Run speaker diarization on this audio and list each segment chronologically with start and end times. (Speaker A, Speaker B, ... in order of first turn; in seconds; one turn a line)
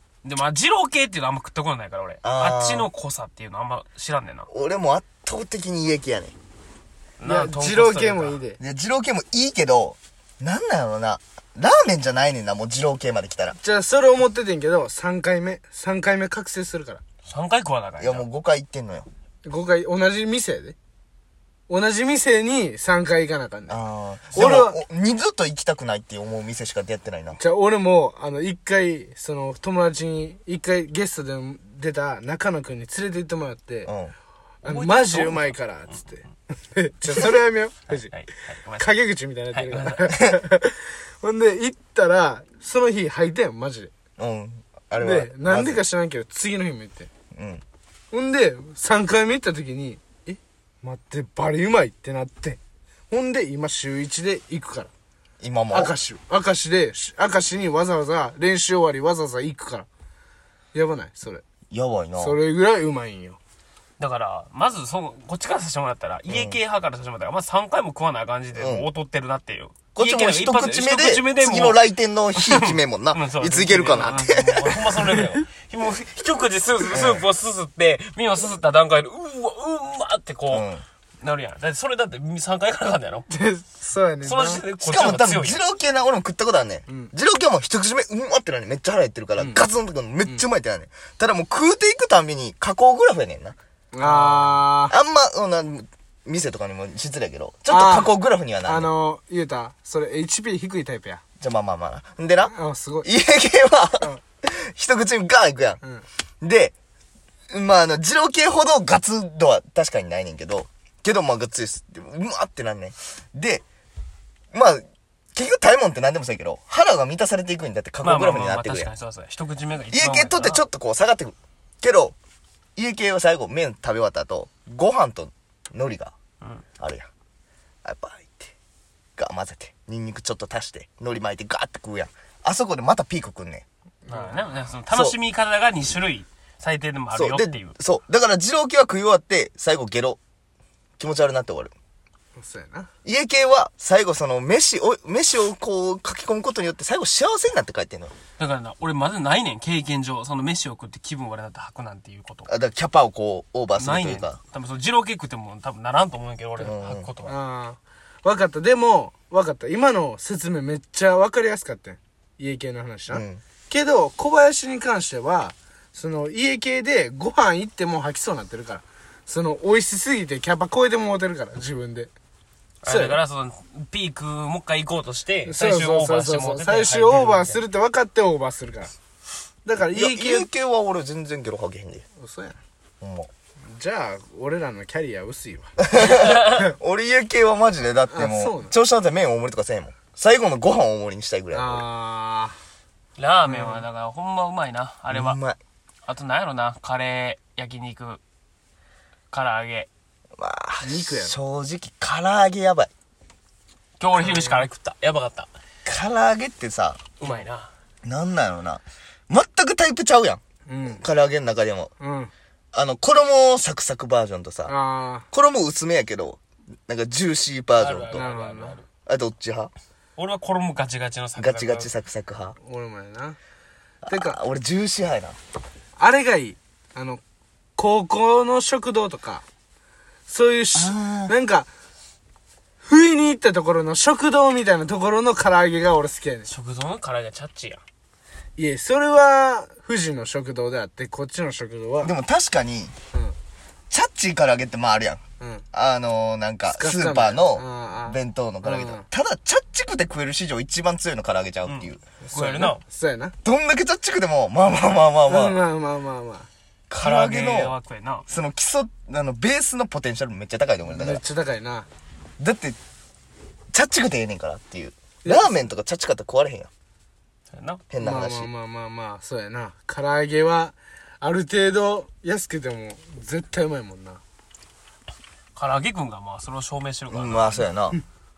Speaker A: 0.2-4.5
Speaker B: 2.2-2.9
Speaker B: 4.5-6.3
Speaker A: 7.2-8.4
Speaker C: 7.2-8.6
Speaker B: 8.6-13.6
Speaker C: 13.6-17.0
Speaker A: 17.2-18.2
Speaker B: 18.0-19.1
Speaker C: 19.4-20.8
Speaker C: 21.7-23.8
Speaker B: 23.7-27.4
Speaker C: 24.3-24.8
Speaker C: 27.4-33.9
Speaker B: 33.9-34.1
Speaker A: 34.6-36.0
Speaker C: 34.6-38.1
Speaker A: 37.9-38.9
Speaker C: 38.8-43.9
Speaker A: 39.5-40.1
Speaker B: 44.2-45.8
Speaker C: 45.0-47.1
Speaker B: 47.3-47.6
Speaker C: 48.1-52.6
Speaker C: 53.1-54.9
Speaker B: 55.4-55.9
Speaker C: 55.7-59.9
Speaker C: 60.7-61.4
Speaker B: 61.7-62.4
Speaker C: 62.2-63.4
Speaker A: 64.0-71.8
Speaker B: 66.3-66.6
Speaker B: 68.5-68.9
Speaker B: 69.9-75.2
Speaker A: 72.3-80.7
Speaker B: 76.9-77.2
Speaker B: 80.5-80.8
Speaker A: 81.2-83.3
Speaker C: 83.3-84.7
Speaker A: 84.2-85.6
Speaker B: 84.8-93.5
Speaker C: 86.9-87.1
Speaker C: 89.4-89.7
Speaker C: 93.9-94.9
Speaker A: 94.0-94.7
Speaker B: 94.9-98.9
Speaker C: 97.7-98.1
Speaker C: 98.6-101.2
Speaker B: 101.4-105.8
Speaker C: 102.5-103.1
Speaker B: 106.4-106.7
Speaker B: 107.5-113.6
Speaker B: 114.5-118.9
Speaker A: 118.0-120.6
Speaker B: 119.9-122.1
Speaker B: 122.8-126.1
Speaker B: 126.8-127.0
Speaker B: 127.8-128.5
Speaker B: 129.2-133.6
Speaker C: 134.0-134.5
Speaker A: 134.1-137.7
Speaker B: 134.9-135.2
Speaker B: 137.1-140.2
Speaker B: 141.0-141.7
Speaker C: 142.3-142.9
Speaker B: 143.0-148.1
Speaker A: 148.4-152.5
Speaker B: 152.5-154.4
Speaker A: 153.8-157.4
Speaker B: 156.6-157.1
Speaker C: 157.2-172.1
Speaker B: 163.1-163.4
Speaker A: 172.8-177.6
Speaker C: 172.8-173.2
Speaker C: 175.4-178.9
Speaker C: 179.6-180.5
Speaker B: 179.9-182.0
Speaker C: 182.2-182.6
Speaker B: 183.0-183.3
Speaker C: 183.6-185.9
Speaker B: 185.9-191.8
Speaker A: 186.0-186.6
Speaker C: 188.1-188.7
Speaker C: 191.5-192.6
Speaker A: 193.2-195.4
Speaker B: 193.5-193.8
Speaker B: 195.1-195.6
Speaker A: 196.1-198.2
Speaker A: 199.3-199.9
Speaker B: 200.4-202.9
Speaker C: 200.8-201.3
Speaker A: 204.0-205.5
Speaker C: 204.1-204.7
Speaker B: 205.8-207.1
Speaker A: 207.2-207.7
Speaker B: 208.0-211.9
Speaker C: 210.7-211.0
Speaker C: 212.0-212.3
Speaker B: 212.7-214.7
Speaker C: 214.7-215.2
Speaker B: 215.3-218.2
Speaker A: 217.8-218.8
Speaker C: 218.1-218.8
Speaker B: 219.1-219.7
Speaker A: 220.2-221.9
Speaker B: 221.4-222.6
Speaker C: 222.6-223.4
Speaker B: 224.0-225.4
Speaker C: 224.1-224.4
Speaker C: 226.0-227.2
Speaker C: 227.8-229.4
Speaker C: 230.3-231.7
Speaker B: 230.7-231.3
Speaker C: 232.8-236.5
Speaker A: 236.5-237.8
Speaker C: 238.6-242.1
Speaker B: 242.0-242.9
Speaker B: 243.9-245.2
Speaker C: 245.4-245.6
Speaker B: 245.7-252.0
Speaker C: 246.7-249.1
Speaker A: 251.7-252.8
Speaker C: 252.2-253.3
Speaker B: 253.4-255.6
Speaker C: 255.3-256.5
Speaker B: 256.9-257.7
Speaker A: 257.0-258.2
Speaker B: 258.3-261.2
Speaker C: 260.9-261.9
Speaker B: 262.4-262.8
Speaker B: 263.7-266.7
Speaker C: 265.2-265.5
Speaker A: 267.5-267.8
Speaker B: 267.9-268.5
Speaker C: 268.0-274.2
Speaker A: 275.6-277.7
Speaker B: 277.1-278.0